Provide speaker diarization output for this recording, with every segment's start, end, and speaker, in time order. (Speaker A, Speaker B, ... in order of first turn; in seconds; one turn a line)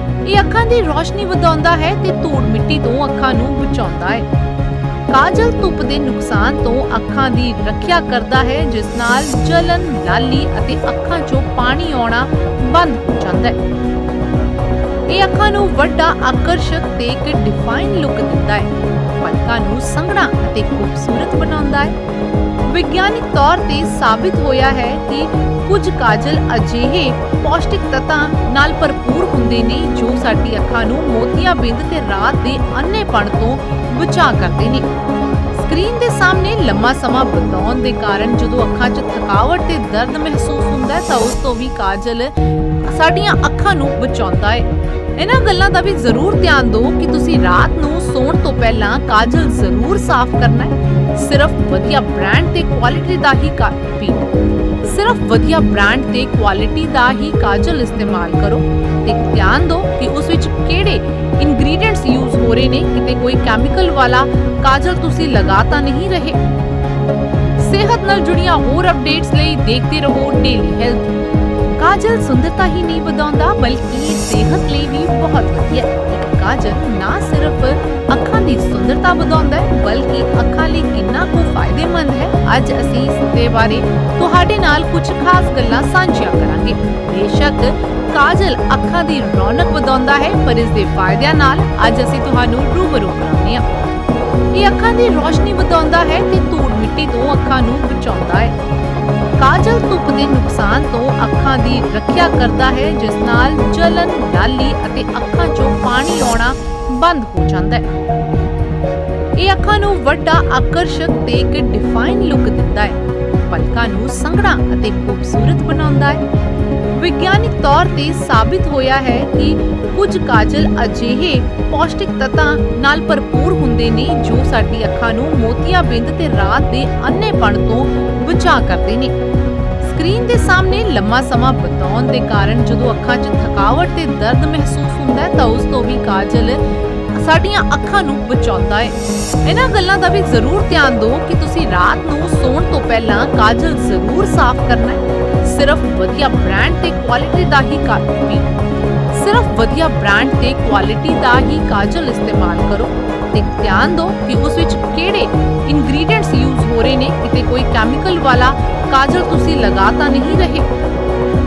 Speaker A: 0.3-4.3
Speaker A: 5.1-13.6
Speaker A: 15.1-21.9
Speaker A: 22.7-34.9
Speaker A: 35.5-54.3
Speaker A: 54.8-66.4
Speaker A: 67.6-71.1
Speaker A: 71.8-93.6
Speaker A: 94.5-98.5
Speaker A: 99.4-107.9
Speaker A: 109.4-116.2
Speaker A: 117.0-129.1
Speaker A: 129.8-136.6
Speaker A: 137.1-148.6
Speaker A: 149.1-160.7